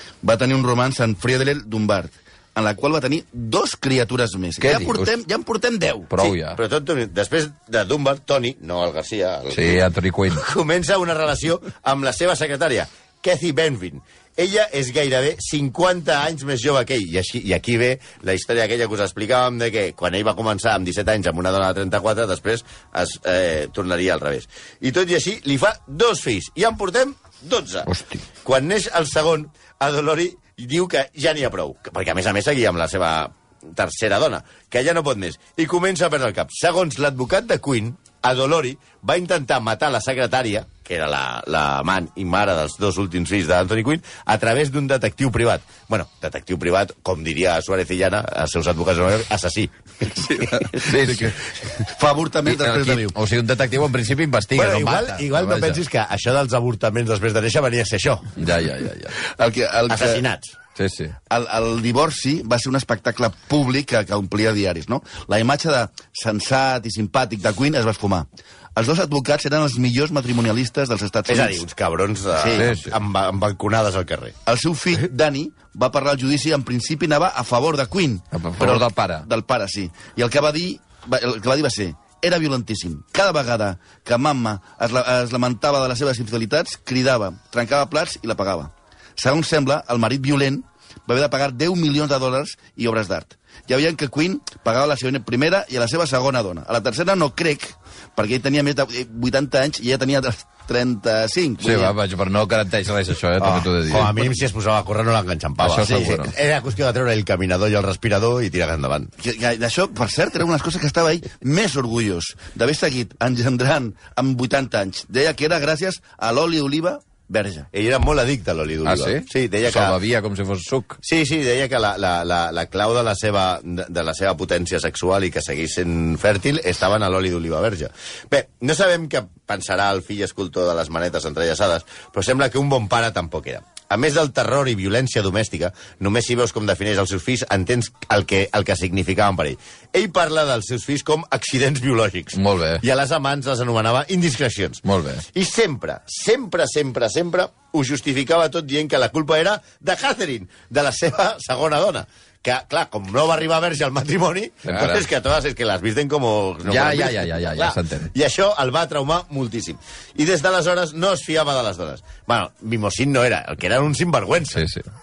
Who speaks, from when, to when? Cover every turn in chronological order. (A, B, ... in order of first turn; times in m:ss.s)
0:00.2-0:06.1 A
0:04.6-0:05.1 B
0:06.1-0:06.6 B
0:06.2-0:27.9 C
0:09.5-0:10.4 B
0:27.9-0:28.2 B
0:28.4-0:50.7 C
0:50.1-0:53.2 A
0:50.8-0:51.4 B
0:52.5-0:55.8 B
0:54.6-0:58.4 C
0:58.4-0:59.1 B
0:59.2-1:00.2 A
0:59.9-1:00.6 C
1:00.8-1:01.2 B
1:01.3-1:11.6 A
1:11.3-1:14.4 C
1:12.3-1:12.7 A
1:12.6-1:12.9 B
1:14.5-1:41.9 A
1:18.3-1:19.3 B
1:41.6-1:44.3 B
1:43.4-1:49.1 C
1:45.6-1:46.3 B
1:49.2-1:57.7 A
1:57.7-2:00.0 C
1:58.8-2:01.0 B
2:01.0-2:24.8 C
2:22.4-2:22.8 B
2:24.8-2:25.2 B
2:25.3-2:44.6 C
2:34.7-2:35.1 B
2:36.7-2:38.1 B
2:44.6-2:44.8 B